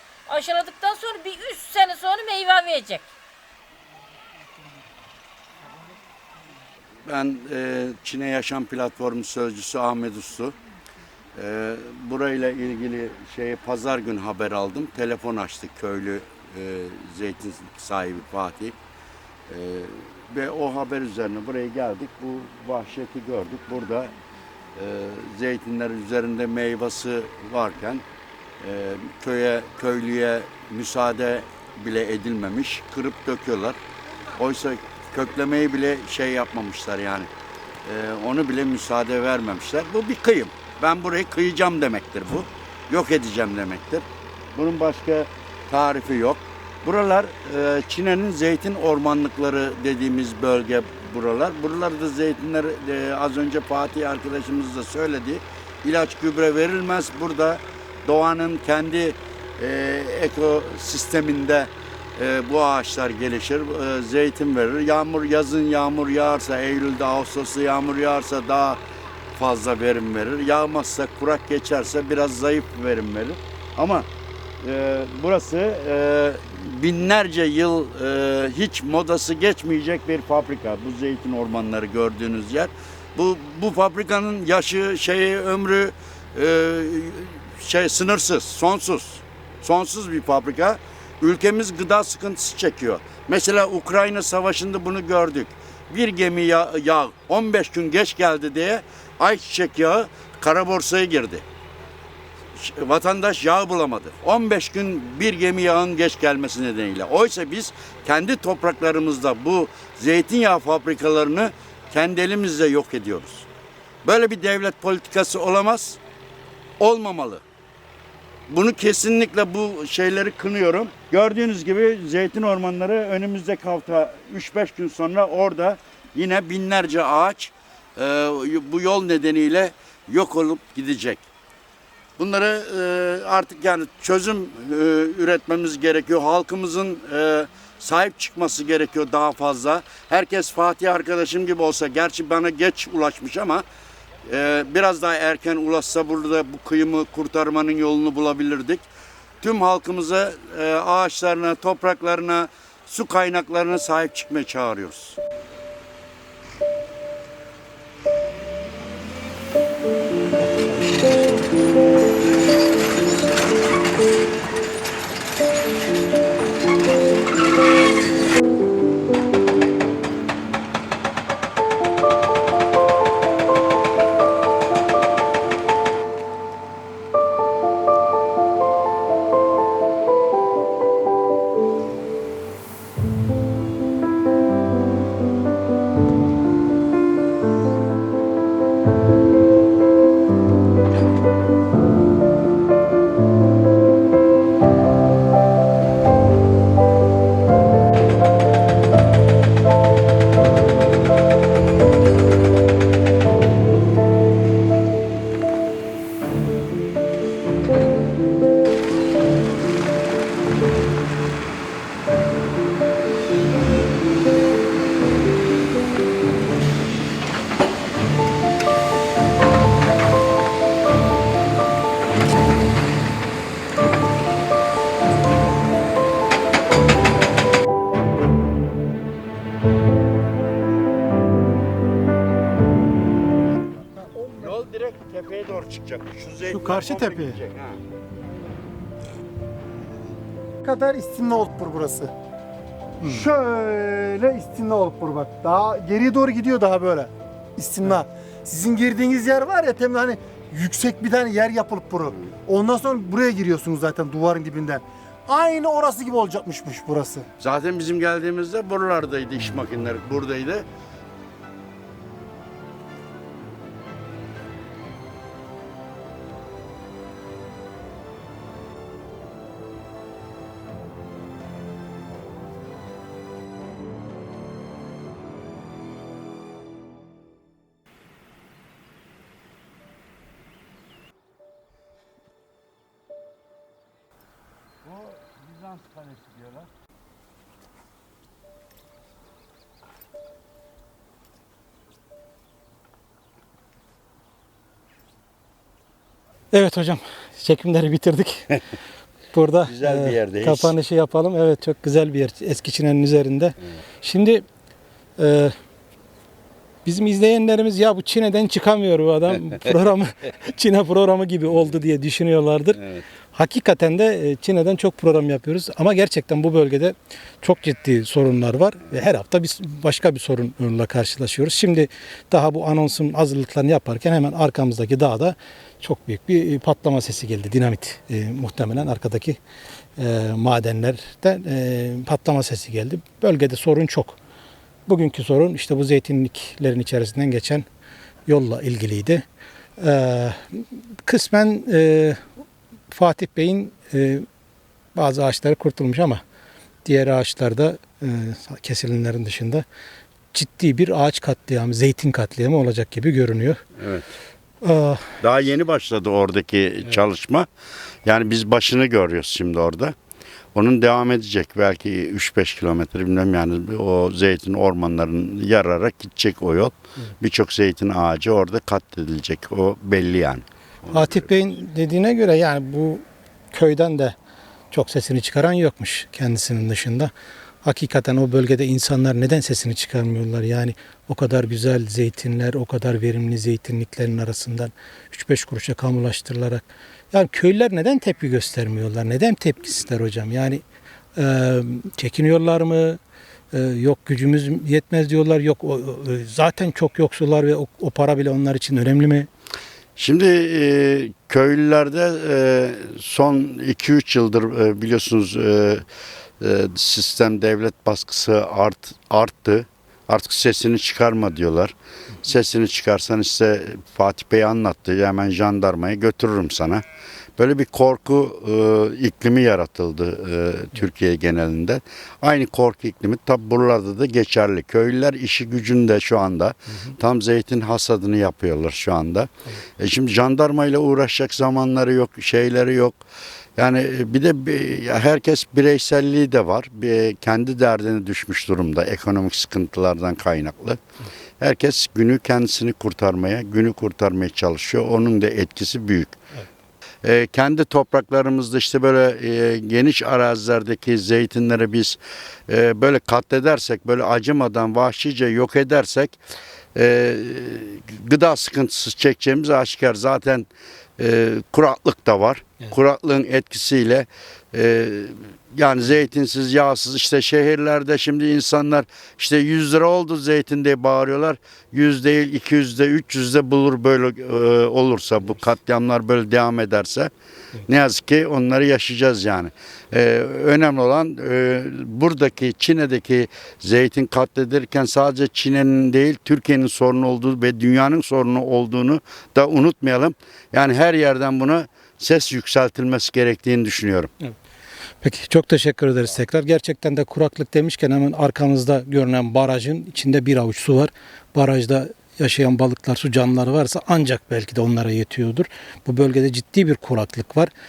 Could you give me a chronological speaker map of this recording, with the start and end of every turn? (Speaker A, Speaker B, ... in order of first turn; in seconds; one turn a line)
Speaker A: 0.3-3.1
Speaker B: 7.0-10.5
Speaker B: 11.3-18.7
Speaker B: 19.5-24.1
Speaker B: 24.8-28.0
Speaker B: 28.6-33.8
Speaker B: 34.4-37.3
Speaker B: 37.8-68.8
Speaker B: 69.3-74.0
Speaker B: 74.6-101.4
Speaker B: 102.5-113.5
Speaker B: 114.0-116.0
Speaker B: 116.8-117.4
Speaker B: 118.5-131.2
Speaker B: 132.2-143.6
Speaker B: 144.2-148.8
Speaker B: 149.4-155.2
Speaker C: 160.4-161.4
Speaker D: 233.9-234.6
Speaker B: 234.3-237.8
Speaker C: 236.4-237.4
Speaker D: 240.6-242.1
Speaker C: 243.0-243.2
Speaker D: 243.0-257.3
Speaker B: 257.4-260.6
Speaker C: 296.5-298.6
Speaker C: 299.3-304.4
Speaker B: 299.7-300.7
Speaker C: 305.2-305.5
Speaker C: 306.8-312.8
Speaker B: 312.8-313.0
Speaker C: 313.3-329.4
Speaker C: 330.0-334.2
Speaker C: 334.9-337.6
Speaker C: 338.3-339.2
Speaker C: 339.8-342.2
Speaker C: 342.9-344.2
Speaker C: 344.9-346.2
Speaker C: 346.8-349.6
Speaker C: 350.3-353.6
Speaker B: 353.8-354.1
Speaker C: 354.6-355.1
Speaker B: 355.2-357.5
Speaker B: 358.0-359.9
Speaker B: 360.5-371.3
Speaker C: 370.9-374.1
Speaker C: 374.7-377.1
Speaker C: 377.6-390.6
Speaker C: 391.2-393.0
Speaker C: 393.5-399.3
Speaker B: 400.0-405.8
Speaker B: 406.4-416.8
Speaker B: 417.4-433.0
Speaker B: 433.6-440.8
Speaker B: 441.4-446.2
Speaker B: 447.0-452.0
Speaker B: 452.5-456.2
Speaker B: 456.7-460.5
Speaker B: 461.0-477.1
Speaker B: 477.7-494.1
Speaker C: 495.0-507.5